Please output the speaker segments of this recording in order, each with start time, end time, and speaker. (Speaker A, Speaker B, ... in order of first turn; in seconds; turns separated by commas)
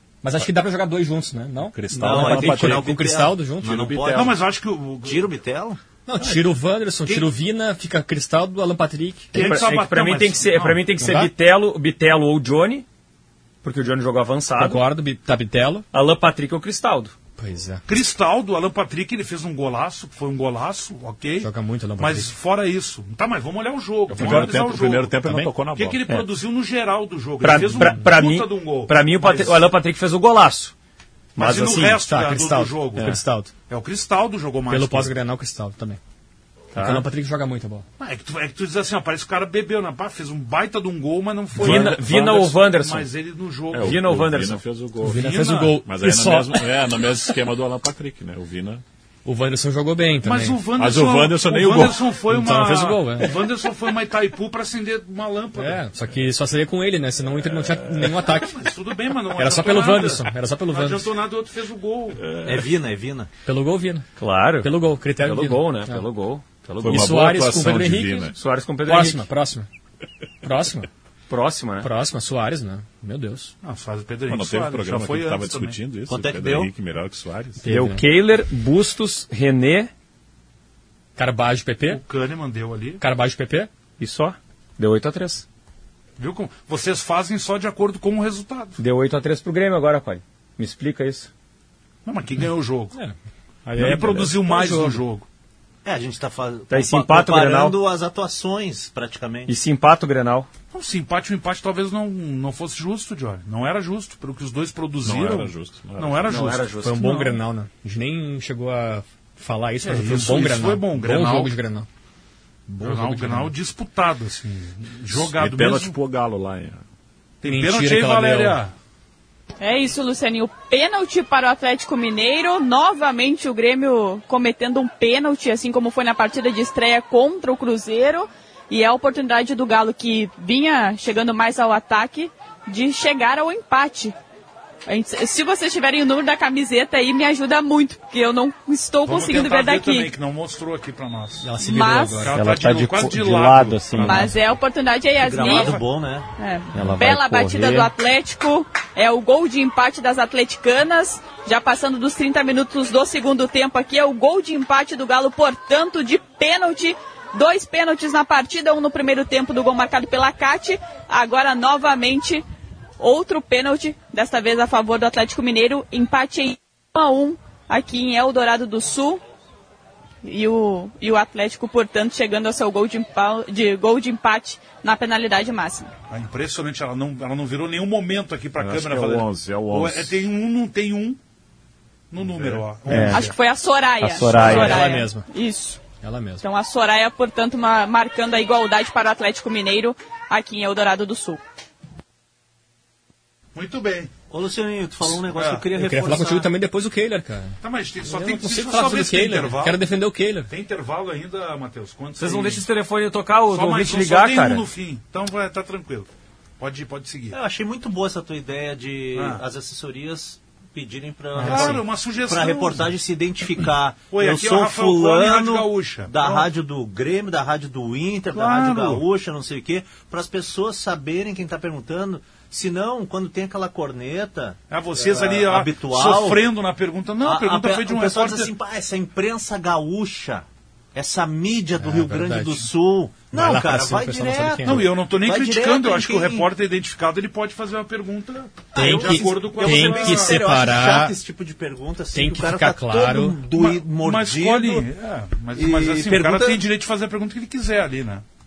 Speaker A: 0.2-3.8, Speaker B: 1.6-3.0, Speaker C: 1.9-4.4, Speaker B: 3.6-4.4, Speaker D: 4.1-5.3, Speaker C: 5.0-5.8, Speaker A: 6.0-9.3, Speaker D: 9.3-10.9, Speaker E: 9.3-12.8, Speaker A: 11.0-11.3, Speaker E: 13.6-14.8, Speaker A: 14.6-15.8, Speaker E: 15.9-17.1, Speaker A: 17.4-17.9, Speaker D: 17.9-29.7, Speaker A: 21.4-22.3, Speaker B: 24.1-26.0, Speaker E: 27.4-30.7, Speaker A: 27.7-28.1, Speaker E: 31.4-32.0, Speaker D: 31.4-33.2, Speaker A: 31.9-33.5, Speaker D: 33.7-35.1, Speaker A: 34.7-36.0, Speaker E: 36.7-37.0, Speaker A: 36.7-37.8, Speaker D: 38.0-43.9, Speaker B: 41.5-42.5, Speaker E: 41.6-43.1, Speaker B: 43.7-48.8, Speaker E: 43.8-44.6, Speaker A: 45.0-46.6, Speaker D: 45.1-45.8, Speaker A: 49.2-50.6, Speaker D: 50.2-55.8, Speaker B: 50.7-52.2, Speaker A: 52.2-53.3, Speaker A: 55.5-58.6, Speaker B: 57.3-58.3, Speaker D: 58.4-62.2, Speaker A: 59.3-61.1, Speaker B: 62.2-62.7, Speaker C: 62.4-63.3, Speaker A: 63.4-64.1, Speaker E: 64.2-67.1, Speaker A: 64.6-66.0, Speaker B: 66.8-68.3, Speaker A: 66.8-68.3, Speaker E: 68.3-69.2, Speaker A: 68.8-69.7, Speaker A: 70.4-70.9, Speaker E: 71.3-71.9, Speaker A: 71.8-73.5, Speaker D: 73.6-75.8, Speaker B: 74.2-77.6, Speaker C: 76.1-76.7, Speaker A: 77.6-78.0, Speaker E: 77.6-79.9, Speaker A: 81.2-82.0, Speaker D: 81.9-83.0, Speaker A: 83.0-83.7, Speaker E: 84.0-85.4, Speaker D: 86.2-88.8, Speaker E: 88.8-91.3, Speaker D: 92.0-93.0, Speaker A: 93.7-95.0, Speaker D: 93.8-95.2, Speaker C: 95.8-99.5, Speaker E: 96.7-97.8, Speaker E: 99.5-100.5, Speaker D: 100.7-107.3, Speaker B: 105.0-106.5, Speaker E: 106.2-107.1, Speaker A: 106.8-111.9, Speaker D: 109.8-111.5, Speaker A: 112.7-113.5, Speaker D: 112.8-116.0, Speaker B: 115.1-116.8, Speaker D: 117.4-118.7, Speaker A: 117.4-118.6, Speaker F: 119.6-134.1, Speaker F: 134.9-140.1, Speaker D: 139.0-141.5, Speaker A: 141.4-142.5, Speaker F: 141.6-142.3, Speaker D: 142.2-144.3, Speaker E: 142.3-144.3, Speaker F: 144.0-145.8, Speaker C: 145.2-146.3, Speaker D: 145.3-145.8, Speaker F: 146.4-162.4, Speaker E: 146.7-147.9, Speaker A: 146.7-147.1, Speaker F: 163.0-169.2, Speaker F: 170.2-175.9, Speaker D: 176.1-181.2, Speaker B: 178.6-180.3, Speaker D: 182.1-183.3, Speaker B: 182.2-182.6, Speaker E: 182.8-183.3, Speaker F: 183.1-185.8, Speaker E: 184.0-184.9, Speaker A: 184.2-185.3, Speaker B: 184.3-184.7, Speaker A: 185.9-186.4, Speaker F: 186.4-191.4, Speaker D: 193.5-194.1, Speaker C: 194.3-196.5, Speaker D: 195.2-195.7, Speaker A: 195.7-200.5, Speaker D: 197.6-199.8, Speaker D: 200.5-202.7, Speaker E: 202.2-204.7, Speaker D: 203.5-207.4, Speaker C: 207.3-226.5, Speaker D: 209.1-209.4, Speaker A: 211.4-211.8, Speaker D: 211.4-212.9, Speaker D: 214.1-216.5, Speaker D: 218.3-219.0, Speaker D: 224.7-228.5, Speaker C: 227.2-236.5, Speaker A: 231.8-232.7, Speaker A: 233.3-234.9, Speaker D: 234.7-240.5, Speaker A: 238.7-241.2, Speaker C: 238.7-244.9, Speaker A: 242.1-243.4, Speaker D: 243.5-248.2, Speaker C: 245.5-246.6